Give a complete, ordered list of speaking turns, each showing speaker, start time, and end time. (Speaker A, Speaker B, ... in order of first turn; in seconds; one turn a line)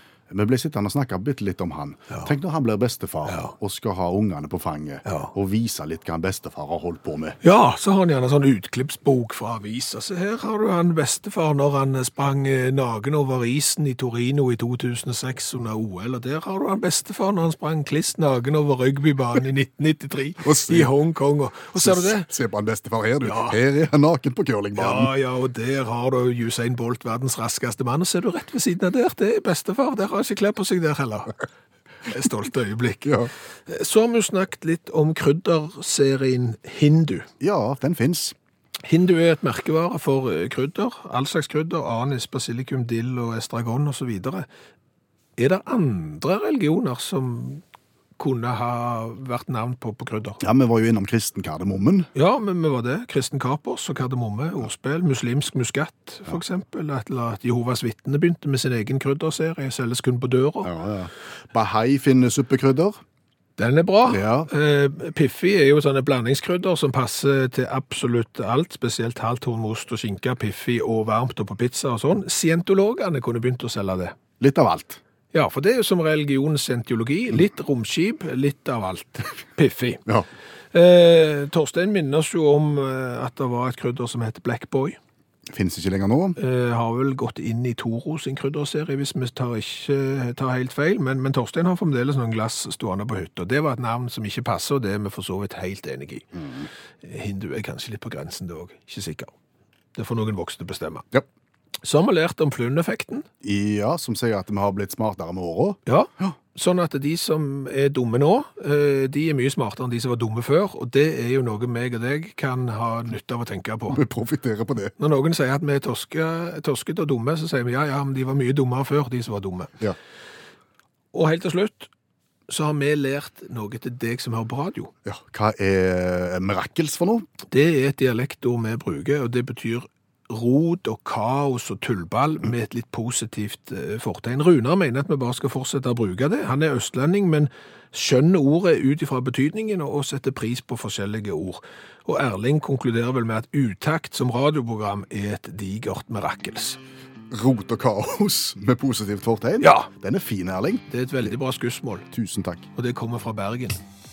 Speaker A: 0.3-7.4
Speaker B: 3.2-3.5
Speaker B: 5.0-5.3
Speaker B: 7.4-22.3
Speaker A: 20.4-20.9
Speaker A: 21.7-25.1
Speaker B: 23.2-23.6
Speaker B: 24.8-31.4
Speaker B: 32.0-37.3
Speaker A: 33.0-33.3
Speaker A: 37.4-38.3
Speaker B: 38.8-44.5
Speaker B: 45.4-47.6
Speaker B: 48.2-50.4
Speaker A: 50.4-52.1
Speaker B: 52.1-60.7
Speaker A: 60.6-63.0
Speaker B: 63.6-74.2
Speaker A: 64.1-64.5
Speaker A: 74.4-75.0
Speaker B: 75.3-80.0
Speaker B: 80.7-85.0
Speaker A: 85.5-86.4
Speaker B: 86.4-96.4
Speaker A: 96.3-96.7
Speaker B: 97.0-99.3
Speaker B: 99.9-101.0
Speaker B: 101.8-103.3
Speaker A: 103.4-106.3
Speaker B: 105.8-114.0
Speaker A: 113.9-114.9
Speaker B: 115.0-119.8
Speaker B: 121.1-121.9
Speaker B: 122.5-124.9
Speaker A: 125.0-127.3
Speaker B: 127.5-146.8
Speaker A: 147.3-151.3
Speaker B: 149.6-149.9
Speaker B: 150.9-152.1
Speaker A: 152.1-152.7
Speaker B: 152.7-153.8